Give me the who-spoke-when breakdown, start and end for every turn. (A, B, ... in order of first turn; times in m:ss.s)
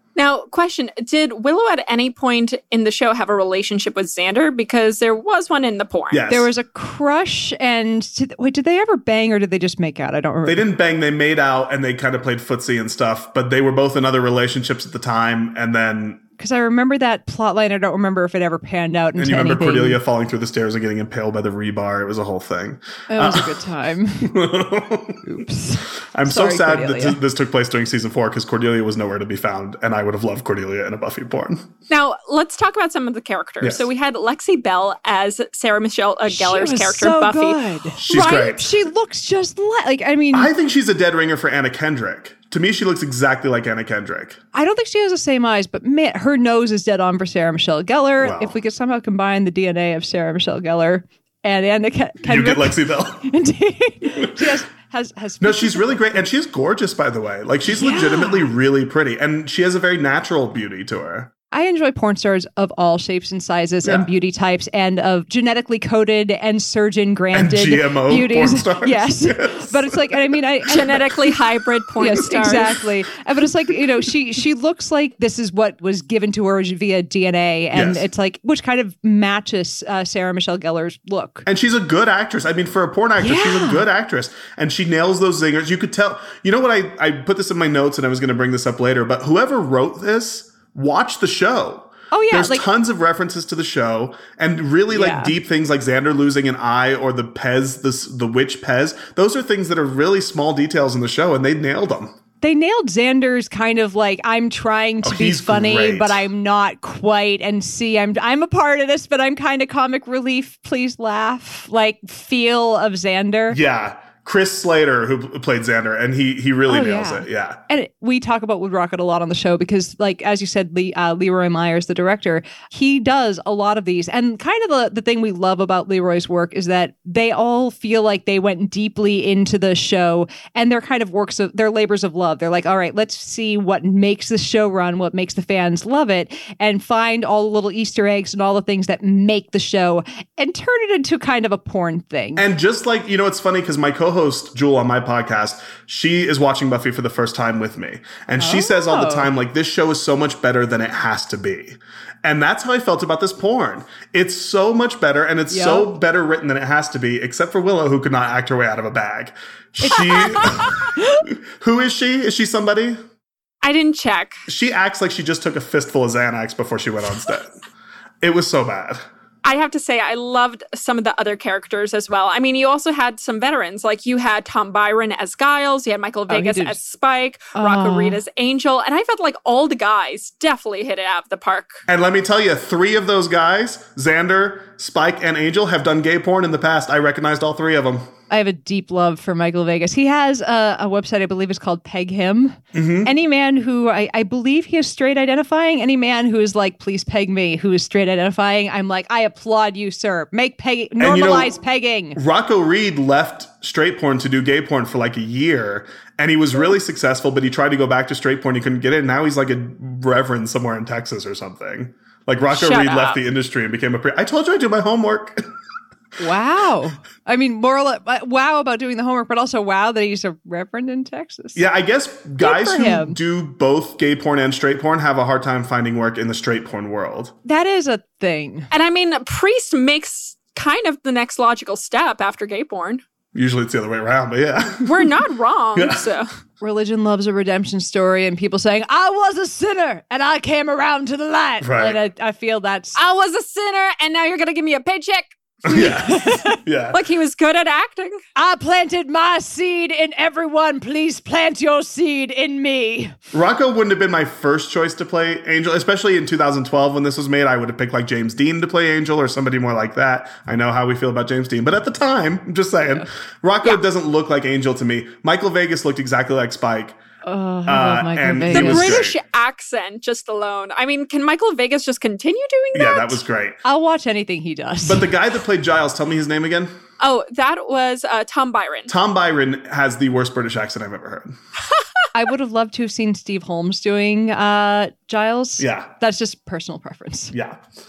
0:00.2-0:06.2 A
0:06.1-0:06.5 B
0:06.3-0:10.6 C
0:10.4-0:16.2 B
0:16.4-0:20.0 C
0:19.2-0:23.6 B
0:23.1-0:24.4 C
0:24.2-0:25.3 B
0:25.2-0:27.2 C
0:26.1-0:31.7 B
0:31.9-0:38.6 A
0:36.3-0:40.5 C
0:38.0-0:38.7 B
0:40.3-0:44.4 B
0:44.5-0:56.0 C
0:48.2-0:48.6 B
0:52.2-0:53.3 B
0:54.2-0:54.6 B
0:55.4-1:01.3 B
0:57.7-0:58.4 C
1:01.5-1:11.0 C
1:07.3-1:11.4 B
1:10.7-1:12.8 A
1:12.0-1:21.5 C
1:12.3-1:12.8 B
1:17.7-1:18.1 B
1:21.4-1:42.1 B
1:23.2-1:23.8 C
1:32.1-1:32.6 C
1:34.9-1:35.4 C
1:42.4-1:53.6 C
1:45.0-1:46.3 B
1:53.5-1:57.6 B
1:56.7-2:22.5 C
2:22.4-2:43.0 B
2:28.4-2:29.3 C
2:35.5-2:35.9 C
2:39.8-2:41.2 C
2:43.6-2:44.4 A
2:44.5-2:47.6 B
2:48.2-2:49.1 B
2:49.4-3:01.8 A
2:56.3-2:56.8 C
2:57.6-2:58.2 C
3:01.9-3:08.1 B
3:08.3-3:22.2 C
3:12.7-3:13.1 B
3:21.0-3:21.5 B
3:22.2-3:35.4 B
3:32.5-3:33.2 A
3:36.2-3:41.6 C
3:41.6-3:47.3 B
3:42.4-3:43.2 C
3:47.4-3:48.7 C
3:48.7-3:53.0 A
3:53.3-3:55.2 B
3:54.8-3:56.3 A
3:55.8-3:56.1 B
3:56.6-4:03.0 C
4:01.6-4:02.0 B
4:03.0-4:05.9 A
4:05.6-4:07.0 B
4:05.7-4:06.6 C
4:06.9-4:08.2 A
4:08.4-4:13.2 C
4:13.3-4:27.0 B
4:27.2-4:29.1 C
4:27.7-4:29.2 B
4:28.5-4:33.2 A
4:32.7-4:33.6 B
4:33.6-4:35.1 C
4:34.8-4:36.7 B
4:37.0-4:38.9 A
4:38.9-4:41.3 B
4:42.1-4:47.3 C
4:45.6-4:45.9 B
4:47.3-4:47.6 B